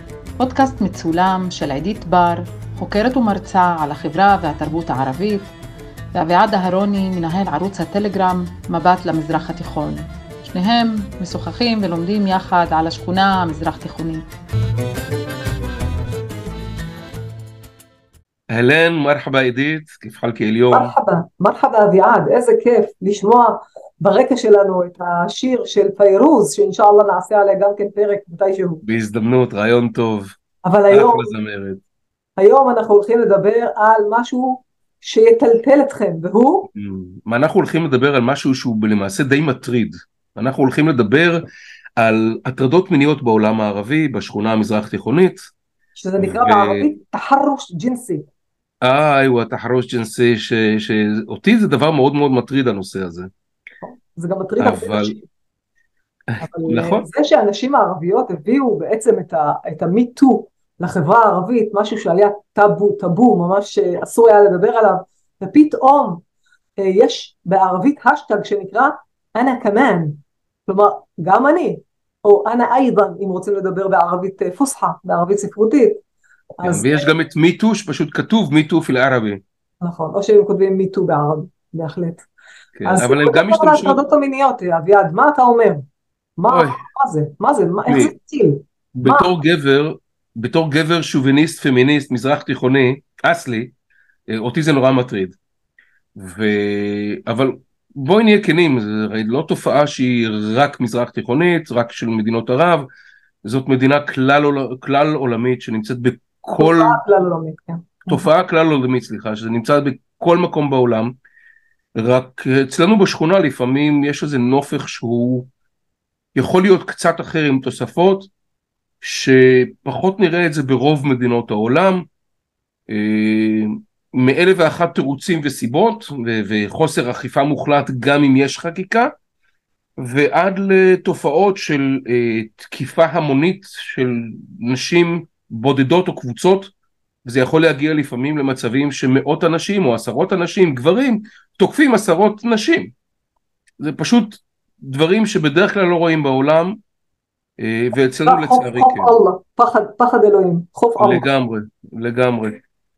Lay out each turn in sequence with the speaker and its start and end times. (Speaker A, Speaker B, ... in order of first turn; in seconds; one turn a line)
Speaker A: 0.4-5.5
Speaker A: 6.1-14.3
Speaker B: 18.5-20.9
Speaker C: 20.7-28.8
Speaker B: 28.8-30.4
Speaker C: 30.6-31.3
Speaker B: 30.9-31.8
Speaker C: 32.4-36.7
Speaker B: 36.7-41.4
Speaker B: 42.0-45.5
Speaker C: 46.0-48.2
Speaker B: 46.2-46.9
Speaker B: 48.8-53.3
Speaker C: 53.8-55.2
Speaker B: 54.6-55.2
Speaker B: 56.3-57.1
Speaker C: 56.4-66.2
Speaker C: 66.8-76.0
Speaker C: 76.6-77.1
Speaker B: 76.6-79.4
Speaker C: 79.8-82.3
Speaker B: 82.8-84.0
Speaker C: 82.8-85.8
Speaker C: 86.4-89.3
Speaker B: 86.5-86.8
Speaker B: 87.9-88.1
Speaker B: 89.0-93.7
Speaker B: 94.3-95.4
Speaker B: 96.2-102.9
Speaker B: 103.4-107.0
Speaker C: 106.6-108.3
Speaker B: 108.1-111.2
Speaker B: 112.0-115.5
Speaker B: 116.3-118.3
Speaker B: 119.0-122.0
Speaker B: 122.9-129.1
Speaker B: 130.0-136.7
Speaker B: 137.2-142.9
Speaker B: 143.8-146.8
Speaker B: 147.6-149.1
Speaker C: 148.3-151.3
Speaker B: 151.0-152.6